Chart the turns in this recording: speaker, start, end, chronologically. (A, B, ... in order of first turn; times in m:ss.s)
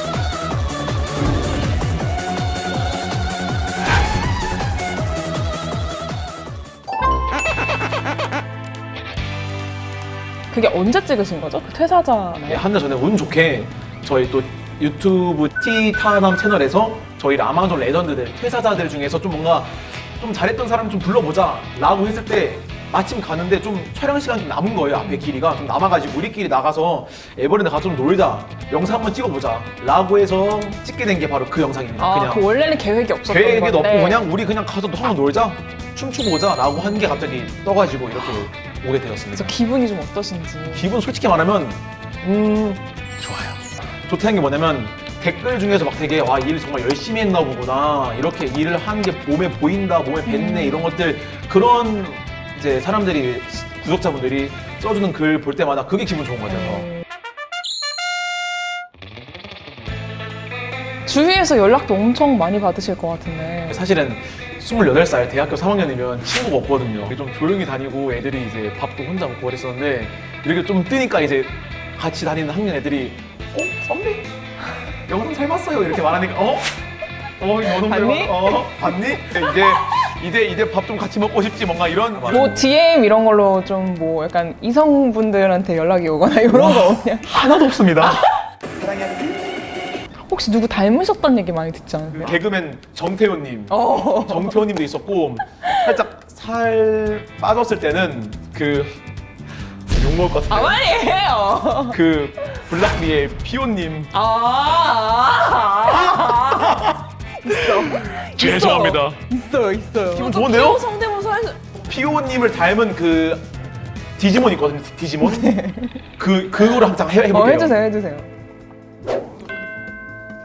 0:10.5-0:12.6 A
0:12.5-0:32.5 B
0:32.0-0:34.3 A
0:33.3-0:39.6 B
0:39.3-0:40.9 A
0:40.7-0:56.9 B
0:50.3-0:50.9 A
1:01.1-1:03.7 A
1:03.7-1:14.3 B
1:15.1-1:16.7 B
1:17.4-1:22.6 B
1:17.8-1:18.8 A
1:22.2-1:27.5 A
1:26.5-1:29.3 B
1:30.3-1:32.4 A
1:32.1-1:39.0 B
1:33.7-1:34.6 A
1:39.9-1:40.8 B
1:40.5-1:42.0 A
1:41.9-1:44.1 B
1:44.1-1:51.6 A
1:46.1-1:47.0 B
1:47.7-1:49.2 B
1:50.1-1:50.8 B
1:51.7-1:53.4 B
1:54.2-1:55.6 B
1:55.2-1:56.0 A
1:56.2-1:57.8 B
1:57.3-1:58.3 A